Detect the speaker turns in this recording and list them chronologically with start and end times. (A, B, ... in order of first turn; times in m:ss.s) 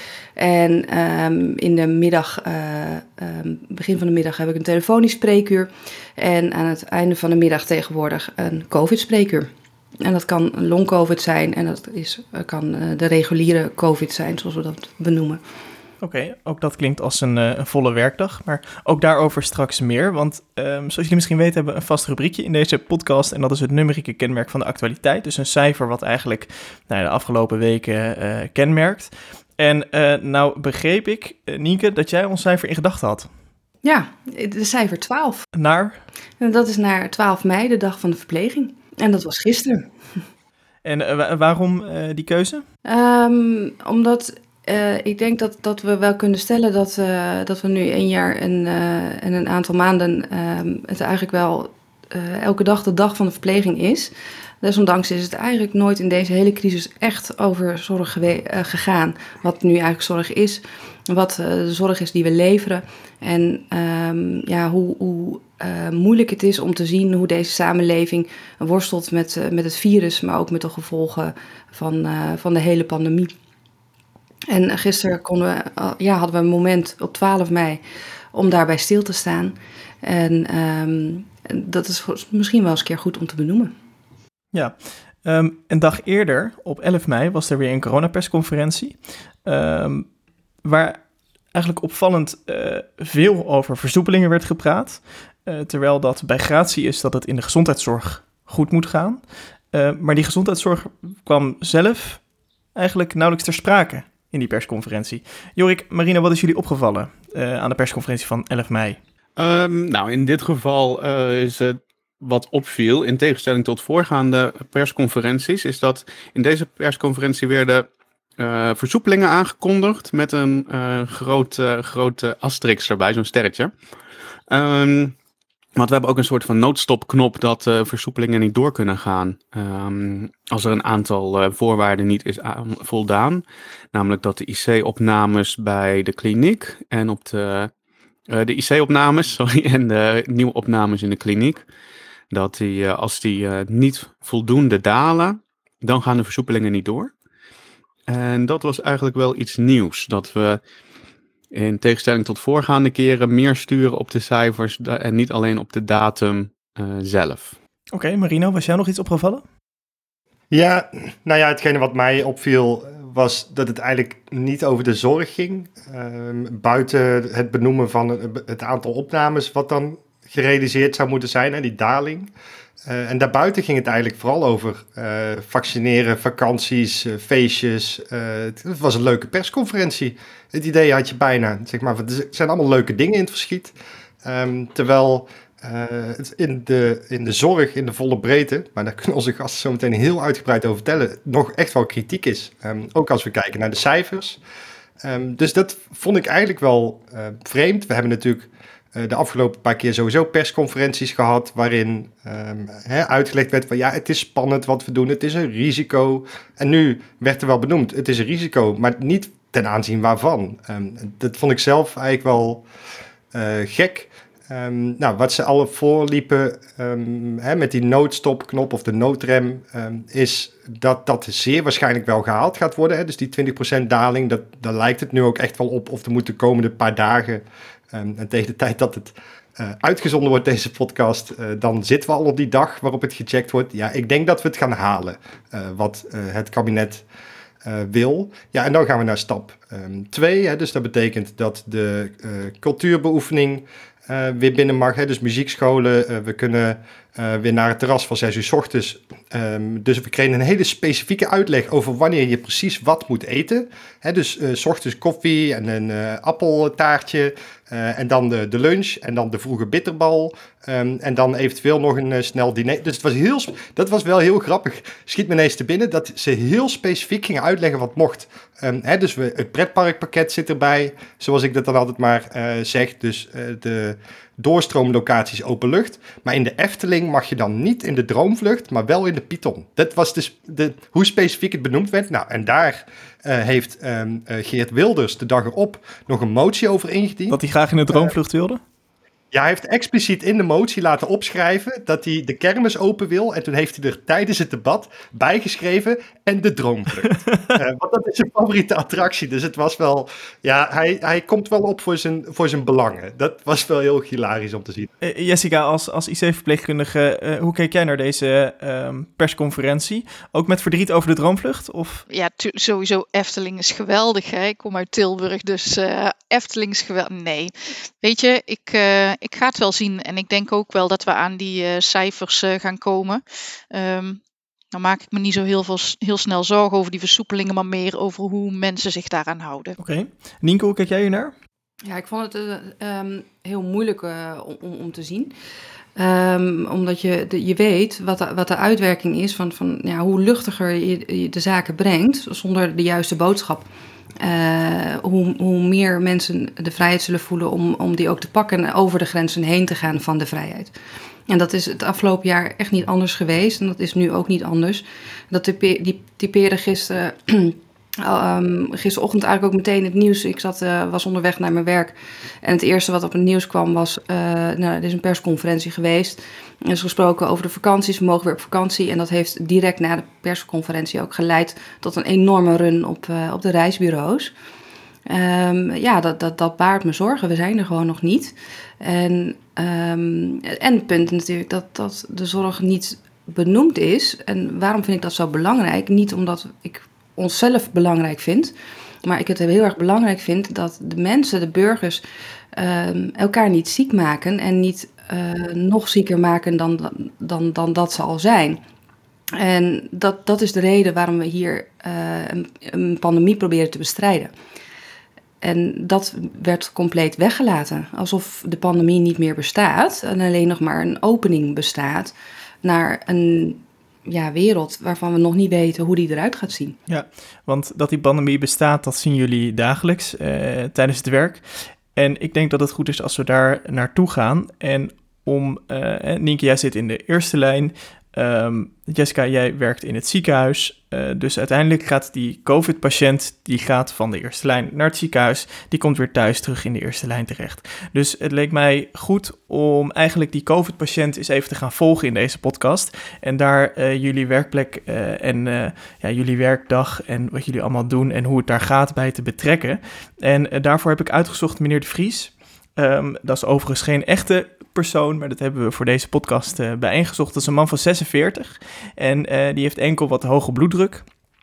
0:00.4-0:09.5 A
0:10.0-0:15.4 A
0:16.0-0:33.3 B
0:33.8-0:35.5 A
0:35.5-0:36.0 B
0:36.4-0:39.9 A
0:40.8-0:42.6 B
0:42.8-1:13.3 A
1:14.5-1:17.8 A
1:18.3-1:23.7 A
1:24.5-1:30.1 B
1:30.6-1:31.0 B
1:31.5-1:42.2 B
1:42.8-1:49.0 B
1:49.4-2:03.7 C
2:04.5-2:05.2 C
2:05.8-2:17.7 C
2:18.3-2:21.7 C
2:22.3-2:27.1 C
2:28.1-2:30.6 C
2:31.5-2:37.6 C
2:37.9-2:39.4 B
2:40.5-2:52.3 D
2:52.8-3:14.4 D
3:15.0-3:32.6 D
3:33.3-3:57.0 D
3:57.6-4:47.4 D
4:47.3-4:48.6 B
4:49.3-5:04.9 D
5:05.0-5:12.0 B
5:12.1-5:24.2 E
5:24.7-5:29.8 E
5:29.8-5:31.4 B
5:31.8-5:35.3 A
5:36.0-5:43.7 A
5:44.2-5:50.7 A
5:51.3-6:14.3 A
6:15.1-6:32.0 A
6:32.5-6:38.6 A
6:39.4-6:44.3 A
6:45.4-6:56.8 A
6:56.9-7:41.1 B